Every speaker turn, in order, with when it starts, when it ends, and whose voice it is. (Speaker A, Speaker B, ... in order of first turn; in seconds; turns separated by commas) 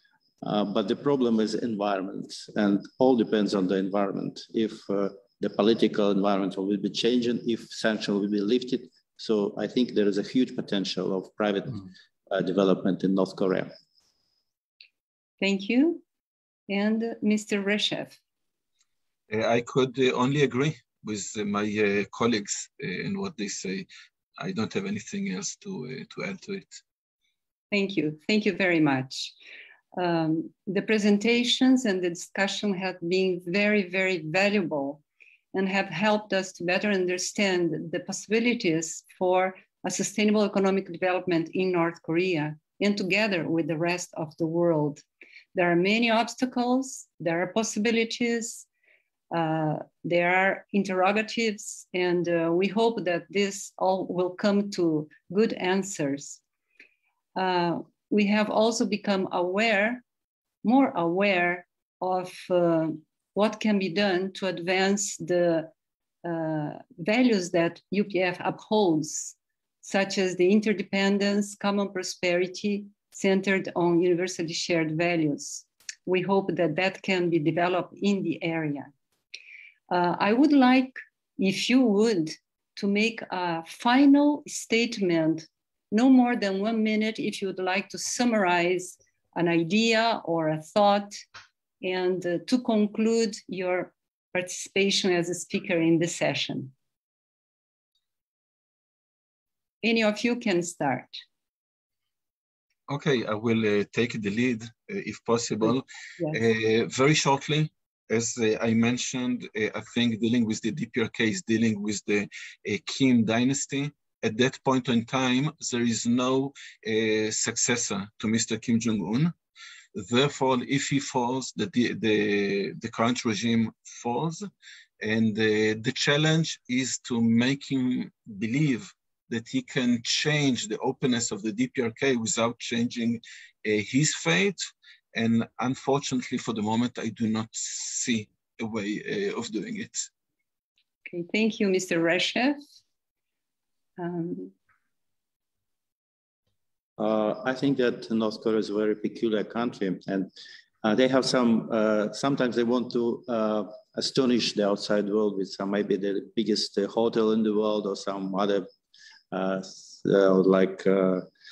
Speaker A: 0.4-13.7, Speaker B: 15.4-16.0, Speaker B: 16.7-18.2, Speaker C: 19.3-26.8, Speaker B: 27.7-29.3, Speaker B: 29.9-35.0, Speaker B: 35.5-45.0, Speaker B: 45.5-48.7, Speaker B: 49.3-56.4, Speaker B: 57.4-60.0, Speaker B: 60.6-65.7, Speaker B: 66.2-78.9, Speaker B: 79.9-91.2, Speaker B: 91.8-96.7, Speaker B: 99.8-101.2, Speaker C: 102.9-119.3, Speaker C: 119.9-124.5, Speaker C: 125.0-134.6, Speaker C: 135.1-140.1, Speaker B: 141.1-142.6, Speaker B: 144.0-144.5, Speaker A: 147.0-150.3, Speaker A: 150.8-158.7, Speaker A: 159.3-161.2